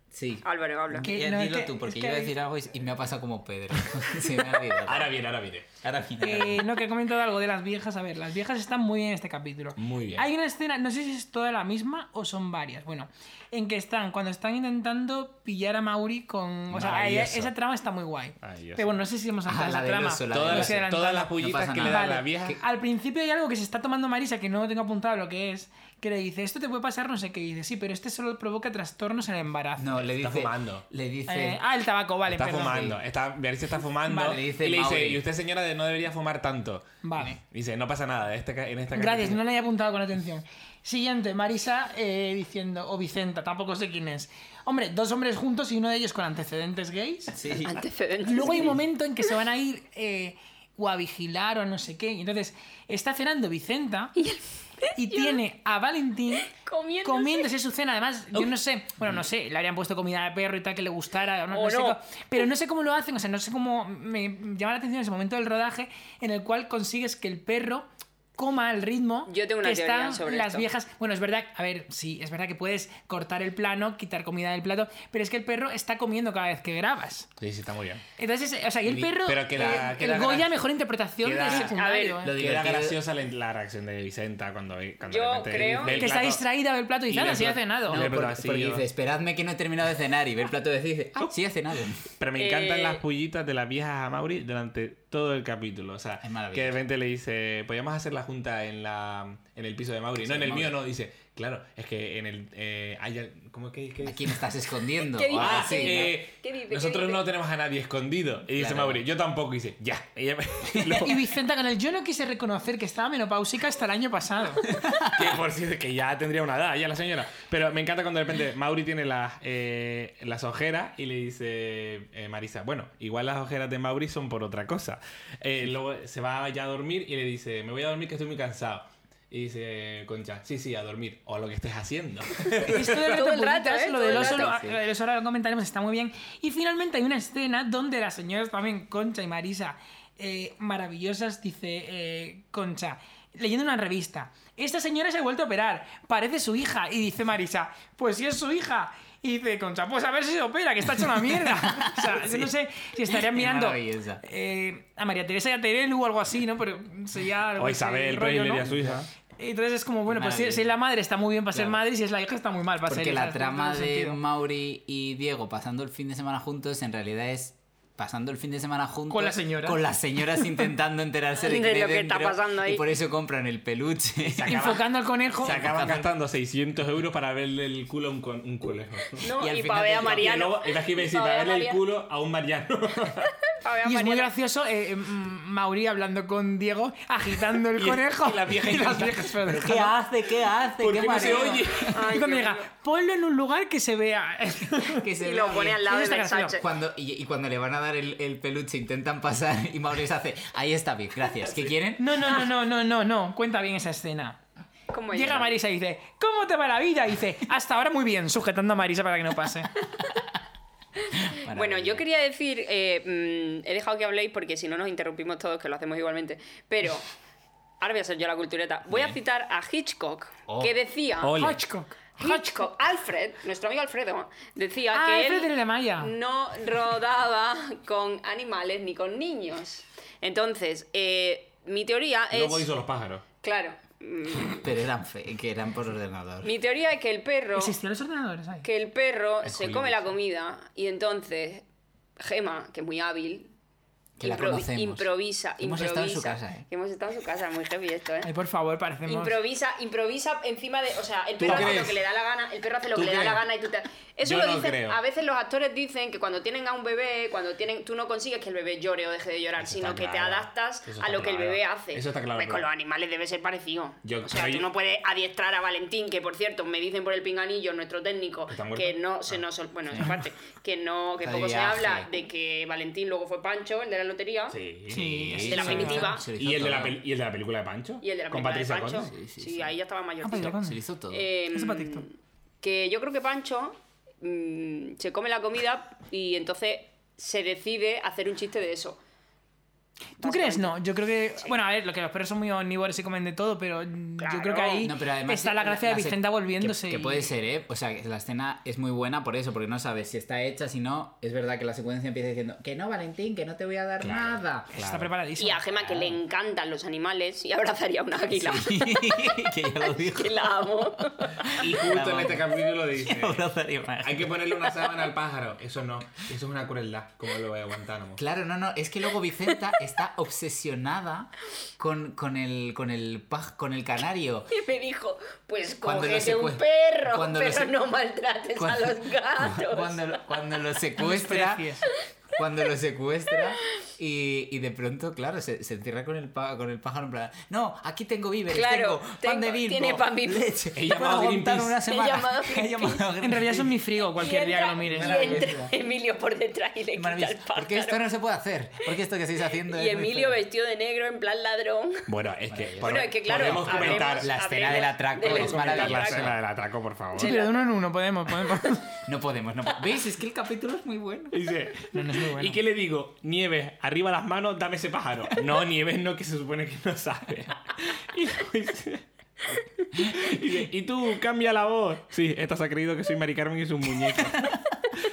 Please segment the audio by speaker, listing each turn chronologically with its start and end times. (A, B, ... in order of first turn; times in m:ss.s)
0:00.1-0:05.1 A
0:00.4-0:01.1 B
0:01.0-0:02.3 C
0:04.8-0:05.7 D
0:05.8-0:06.6 A
0:06.2-0:30.0 C
0:09.8-0:10.3 D
0:16.7-0:17.5 D
0:18.4-0:18.9 D
0:19.5-0:22.6 A
0:20.3-0:22.6 D
0:29.8-0:31.6 A
0:30.2-0:30.8 D
0:31.3-0:32.8 C
0:32.3-0:39.4 D
0:32.6-0:33.0 A
0:34.1-0:35.2 A
0:37.0-0:37.4 C
0:38.9-0:47.4 C
0:47.3-0:47.8 A
0:47.6-0:48.8 B
0:48.2-0:54.2 C
0:54.2-0:55.4 B
0:55.0-1:17.3 C
0:56.5-0:57.5 B
1:01.5-1:02.0 B
1:09.3-1:10.7 B
1:17.4-1:18.0 D
1:18.2-1:22.3 C
1:18.9-1:20.4 A
1:19.2-1:20.5 D
1:21.2-1:21.8 D
1:21.4-1:22.3 B
1:22.2-1:23.0 A
1:22.3-1:26.4 D
1:25.1-1:26.1 B
1:25.9-1:28.0 C
1:27.1-1:28.8 D
1:27.9-1:32.1 A
1:32.2-1:44.4 D
1:32.4-1:33.0 B
1:36.2-1:36.8 A
1:40.2-1:40.8 A
1:44.0-1:46.2 A
1:45.1-1:47.2 B
1:45.4-1:51.2 D
1:48.6-1:49.0 A
1:50.7-1:51.1 A
1:51.0-1:54.6 C
1:54.7-1:55.4 A
1:55.1-2:13.2 D
2:12.6-2:44.2 C
2:12.7-2:14.6 B
2:14.1-2:14.8 A
2:31.6-2:32.5 A
2:33.1-2:34.2 A
2:37.6-2:39.1 D
2:38.7-2:39.0 A
2:40.1-2:40.7 A
2:41.5-2:41.8 A
2:42.9-2:54.8 A
2:49.1-2:49.8 C
2:51.4-2:52.8 B
2:54.2-2:59.3 D
2:54.5-2:55.6 C
2:55.4-2:56.1 A
2:59.2-3:01.8 B
2:59.4-3:00.4 A
2:59.8-3:03.3 D
3:03.6-3:04.3 B
3:03.8-3:10.0 C
3:07.7-3:09.4 D
3:09.4-3:11.9 A
3:10.8-3:12.0 D
3:11.9-3:12.7 B
3:12.0-3:15.0 C
3:14.8-3:15.9 A
3:15.2-3:16.7 B
3:15.8-3:16.6 C
3:16.6-3:22.4 A
3:22.0-3:24.4 C
3:24.9-3:25.5 B
3:25.1-3:29.7 C
3:31.2-3:32.0 A
3:31.5-3:37.0 B
3:37.8-3:41.3 B
3:40.5-3:40.7 A
3:41.2-3:41.6 D
3:41.4-3:42.6 C
3:42.2-3:52.7 B
3:44.9-3:46.1 C
3:52.3-3:53.2 D
3:53.4-3:54.7 B
3:54.5-3:56.5 A
3:56.4-3:57.8 B
3:57.6-3:58.7 C
3:58.6-4:01.6 B
3:59.4-4:00.1 D
4:02.2-4:03.5 B
4:04.2-4:06.6 A
4:04.2-4:08.3 B
4:08.2-4:09.4 C
4:09.1-4:34.6 B
4:11.4-4:12.0 D
4:11.4-4:11.7 A
4:13.0-4:13.4 D
4:14.2-4:15.0 D
4:19.6-4:22.7 D
4:24.0-4:24.7 D
4:28.5-4:29.4 D
4:29.9-4:30.2 A
4:31.2-4:32.1 A
4:34.5-4:39.1 D
4:34.9-4:36.1 C
4:34.9-4:37.0 A
4:35.5-4:36.3 B
4:38.0-4:40.6 B
4:39.0-4:39.8 A
4:40.2-4:40.8 C
4:40.4-4:41.3 A
4:41.1-4:49.0 B
4:41.5-4:42.1 C
4:50.2-4:50.8 B
4:50.2-4:57.3 C
4:54.2-4:54.9 B
4:54.8-5:04.7 A
5:04.0-5:05.1 D
5:04.7-5:05.6 C
5:05.4-5:09.3 B
5:08.3-5:14.5 A
5:09.9-5:11.5 B
5:11.5-5:13.4 D
5:14.0-5:18.2 D
5:18.2-5:24.6 A
5:24.5-5:30.2 B
5:25.8-5:27.8 A
5:28.6-5:43.8 A
5:31.0-5:31.9 C
5:38.5-5:40.5 B
5:40.8-5:41.8 D
5:41.8-5:43.0 B
5:43.2-5:45.4 C
5:44.2-5:48.0 B
5:44.8-5:45.8 A
5:47.0-5:50.4 A
5:49.6-5:52.1 B
5:52.1-5:57.4 D
5:52.5-5:56.4 A
5:52.8-5:56.3 B
5:57.2-5:57.5 B
5:57.2-5:58.9 C
5:59.0-6:01.4 A
6:01.3-6:09.0 D
6:01.9-6:02.6 C
6:09.9-6:14.6 D
6:14.2-6:14.6 A